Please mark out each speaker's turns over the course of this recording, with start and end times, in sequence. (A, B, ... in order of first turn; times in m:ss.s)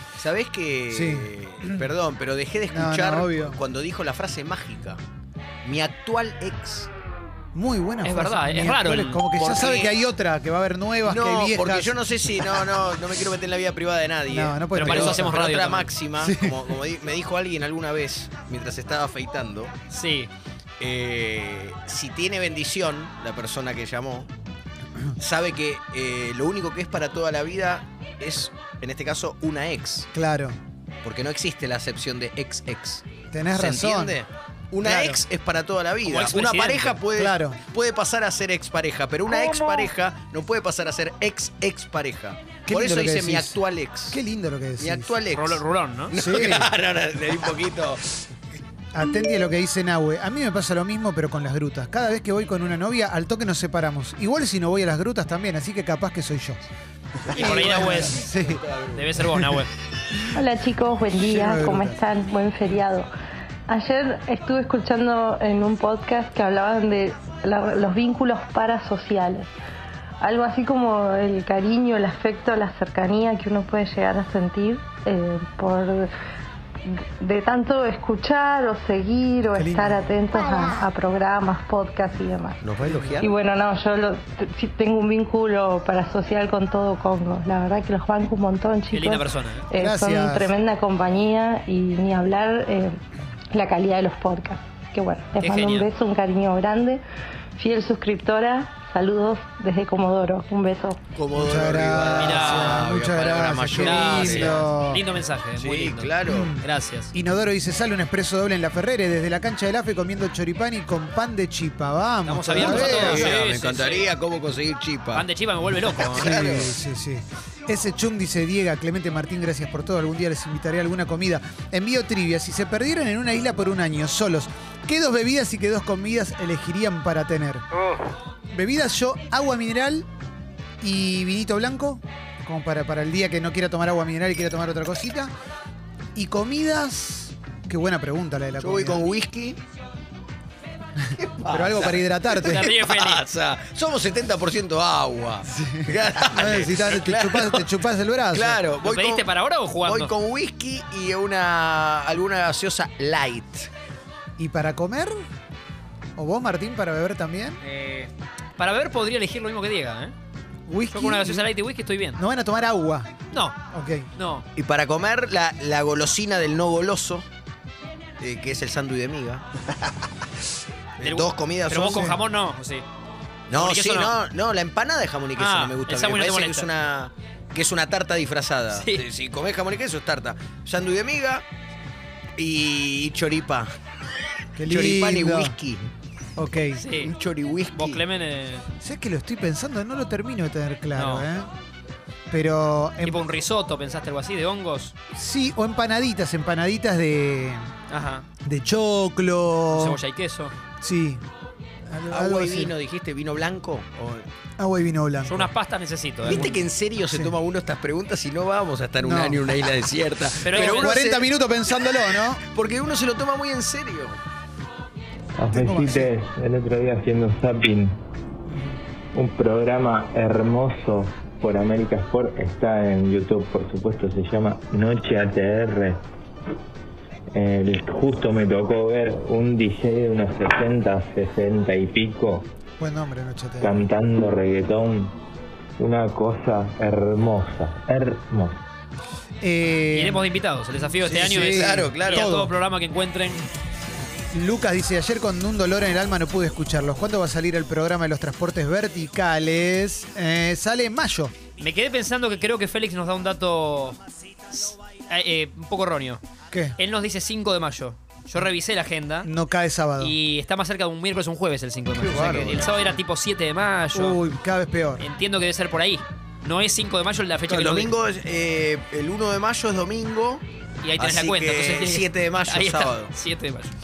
0:00.2-0:05.0 A
0:00.9-0:01.9 B
0:02.7-0:03.6 B
0:05.6-0:06.9 A
0:07.5-0:12.6 B
0:08.0-0:09.2 C
0:09.4-0:10.0 A
0:11.0-0:19.7 A
0:14.3-0:15.3 B
0:14.7-0:15.9 C
0:16.2-0:16.6 B
0:19.9-0:20.3 C
0:20.8-0:24.3 A
0:25.2-0:30.1 A
0:30.1-0:30.6 B
0:31.0-0:44.2 A
0:33.3-0:34.2 B
0:34.8-0:35.2 B
0:36.0-0:37.0 C
0:37.1-0:37.6 B
0:42.7-0:43.6 B
0:44.1-0:45.2 B
0:44.8-0:48.1 A
0:45.3-0:46.1 C
0:46.1-0:46.7 B
0:48.9-0:56.6 B
0:57.3-0:58.6 B
0:57.3-0:58.3 C
0:57.3-0:59.0 A
0:58.9-0:59.7 C
1:00.3-1:03.1 D
1:01.1-1:02.0 B
1:03.7-1:09.5 D
1:10.2-1:16.1 D
1:16.8-1:22.7 D
1:19.5-1:20.3 B
1:22.6-1:23.4 A
1:22.8-1:23.3 B
1:23.2-1:33.0 D
1:28.9-1:29.7 C
1:29.8-1:30.6 B
1:33.5-1:37.0 D
1:35.4-1:35.9 C
1:37.6-1:41.0 D
1:41.1-1:44.6 A
1:41.4-1:45.0 B
1:42.2-1:42.9 C
1:43.8-1:47.1 C
1:45.6-1:46.5 A
1:46.3-1:53.3 B
1:52.2-1:54.1 C
1:52.5-1:55.2 A
1:55.1-1:56.3 C
1:56.0-1:56.8 A
1:56.1-2:07.6 B
2:08.5-2:10.1 B
2:10.8-2:15.3 B
2:16.1-2:19.1 B
2:18.6-2:19.6 A
2:21.2-2:27.7 A
2:21.5-2:22.7 B
2:22.4-2:23.2 C
2:25.4-2:28.6 B
2:28.3-2:29.2 A
2:28.8-2:30.1 C
2:29.8-2:33.7 A
2:34.4-2:35.1 B
2:36.2-2:37.6 B
2:37.6-2:40.1 C
2:40.7-2:41.5 B
2:40.9-2:42.2 C
2:42.2-2:43.1 B
2:43.3-2:43.6 C
2:43.7-2:44.1 B
2:44.2-2:44.4 C
2:44.6-2:47.2 A
2:48.2-2:49.4 A
2:51.0-2:52.1 A
2:51.0-2:52.8 C
2:51.9-2:52.2 B
2:53.5-3:01.4 A
2:53.5-2:54.1 C
2:55.4-2:56.7 C
2:58.7-2:59.0 C
3:02.4-3:03.7 A
3:04.6-3:05.6 B
3:04.6-3:05.9 A
3:06.4-3:06.8 B
3:06.7-3:07.1 C
3:07.0-3:08.0 A
3:07.7-3:08.6 C
3:08.8-3:11.5 B
3:10.9-3:11.3 C
3:12.3-3:13.2 B
3:13.0-3:14.9 C
3:15.1-3:17.7 B
3:17.9-3:18.3 C
3:18.4-3:20.0 B
3:19.7-3:20.5 C
3:20.8-3:21.2 B
3:21.9-3:22.7 B
3:22.1-3:24.2 A
3:24.6-3:25.5 B
3:25.3-3:26.5 C
3:26.2-3:27.4 B
3:26.2-3:31.3 A
3:29.0-3:29.5 B
3:30.4-3:31.0 C
3:30.4-3:32.4 B
3:32.5-3:34.2 A
3:35.4-3:38.0 E
3:35.5-3:36.1 B
3:38.5-3:38.8 B
3:39.1-3:46.0 E
3:47.3-3:52.4 E
3:52.8-3:53.8 B
3:53.6-3:55.2 E
3:55.8-3:58.6 E
3:59.4-4:00.3 B
3:59.9-4:03.4 C
4:01.0-4:02.5 B
4:01.1-4:02.3 A
4:04.3-4:11.3 B
4:11.6-4:14.0 C
4:14.5-4:16.2 C
4:16.5-4:16.8 B
4:16.8-4:19.3 C
4:19.2-4:20.2 B
4:20.0-4:24.2 C
4:22.0-4:22.8 A
4:23.9-4:25.0 B
4:25.0-4:27.9 C
4:27.5-4:30.4 A
4:30.8-4:33.7 C
4:31.0-4:33.1 A